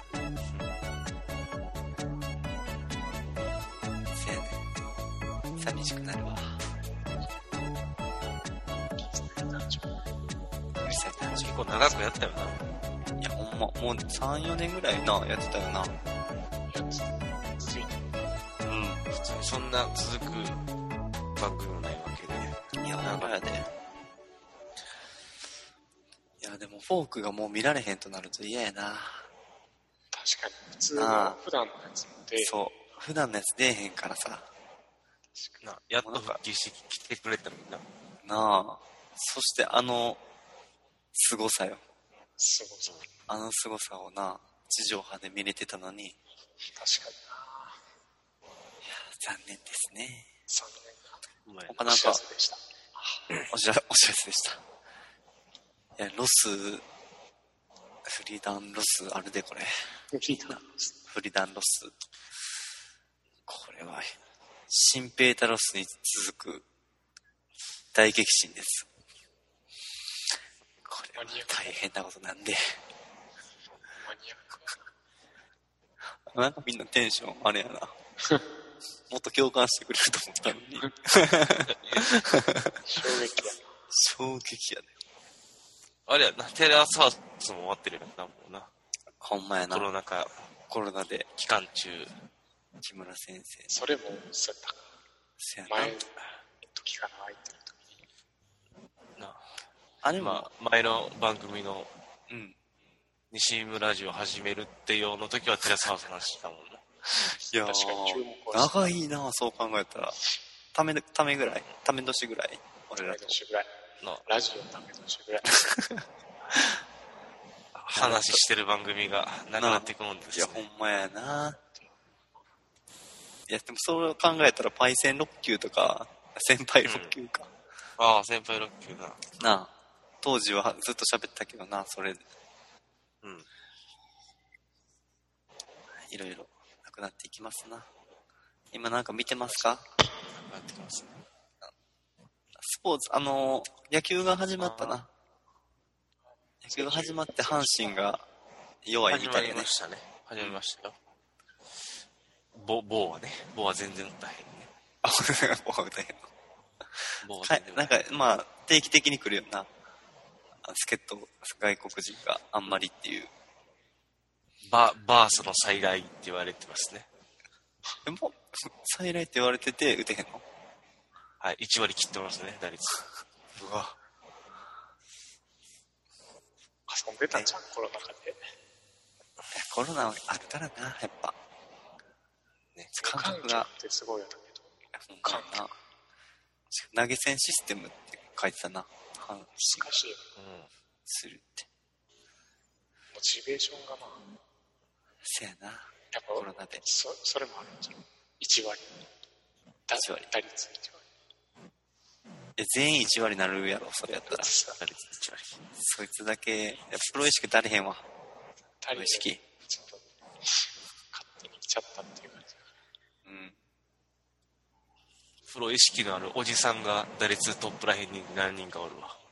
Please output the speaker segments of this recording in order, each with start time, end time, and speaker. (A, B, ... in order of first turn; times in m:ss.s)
0:04.1-0:04.6 A
0:05.6-0:06.6 A
0:08.9-0:10.0 B
0:10.8-0:11.7 A
0:11.3-0:12.6 C
0:13.2-0:16.0 A
0:16.7-0:18.0 B
0:18.6-0:19.0 A
0:19.1-0:20.6 C
0:21.4-0:23.4 C
0:22.8-0:23.7 A
0:26.4-0:29.3 A
0:30.1-0:32.7 B
0:30.9-0:31.4 A
0:32.4-0:34.5 A
0:35.3-0:35.6 B
0:35.6-0:37.8 C
0:36.0-0:36.4 A
0:38.2-0:40.2 A
0:41.1-0:41.8 A
0:42.4-0:43.0 B
0:43.3-0:46.2 A
0:46.7-0:47.8 B
0:48.8-0:50.3 A
0:50.5-0:51.2 B
0:51.4-0:51.8 C
0:51.7-0:52.2 A
0:51.8-0:52.6 B
0:53.3-0:54.6 A
0:56.0-0:56.8 A
0:58.0-0:59.7 A
1:00.1-1:00.9 B
1:00.4-1:01.9 A
1:03.5-1:04.1 A
1:04.7-1:06.6 A
1:07.9-1:08.8 A
1:10.8-1:12.8 A
1:11.1-1:11.8 B
1:14.0-1:14.7 B
1:16.3-1:17.9 A
1:19.1-1:22.8 A
1:21.7-1:22.0 C
1:22.8-1:23.7 B
1:23.9-1:24.9 A
1:26.1-1:28.7 C
1:29.2-1:29.9 A
1:29.7-1:30.4 C
1:30.7-1:31.3 A
1:31.3-1:32.1 C
1:32.8-1:33.7 A
1:33.7-1:34.9 B
1:35.4-1:36.0 A
1:35.7-1:36.1 B
1:36.6-1:38.0 B
1:39.2-1:39.4 C
1:40.0-1:40.5 A
1:40.2-1:41.9 C
1:42.3-1:42.5 A
1:43.3-1:46.8 C
1:47.5-1:50.2 A
1:47.6-1:49.0 B
1:50.7-1:53.4 A
1:53.0-1:53.7 B
1:54.2-1:55.6 B
1:57.8-1:58.4 A
1:57.9-2:00.6 C
1:59.6-2:01.6 A
2:03.5-2:07.5 A
2:06.8-2:07.1 C
2:08.0-2:09.4 C
2:09.4-2:12.2 A
2:13.2-2:13.5 C
2:16.1-2:17.9 A
2:18.7-2:19.8 A
2:20.3-2:21.2 C
2:22.6-2:25.1 A
2:24.6-2:25.0 C
2:26.6-2:28.2 A
2:26.7-2:28.1 B
2:28.8-2:29.7 A
2:29.0-2:31.0 C
2:32.5-2:34.7 C
2:35.0-2:36.2 A
2:37.2-2:38.0 C
2:37.4-2:39.7 A
2:40.6-2:43.3 A
2:44.6-2:47.1 C
2:48.0-2:50.4 A
2:51.4-2:53.1 C
2:53.6-2:54.0 A
2:56.9-2:58.4 B
2:59.5-3:01.4 A
3:02.9-3:03.7 A
3:03.0-3:04.7 B
3:05.0-3:05.7 A
3:05.2-3:05.6 B
3:06.7-3:09.9 A
3:09.6-3:10.2 B
3:10.4-3:10.7 C
3:11.1-3:11.7 A
3:13.1-3:14.2 B
3:15.2-3:16.8 A
3:16.1-3:18.9 B
3:19.9-3:21.0 B
3:19.9-3:20.3 A
3:22.6-3:24.5 A
3:24.3-3:25.6 C
3:24.4-3:24.8 B
3:25.8-3:28.0 A
3:28.8-3:32.6 B
3:28.9-3:29.4 A
3:33.2-3:33.5 A
3:35.5-3:39.2 C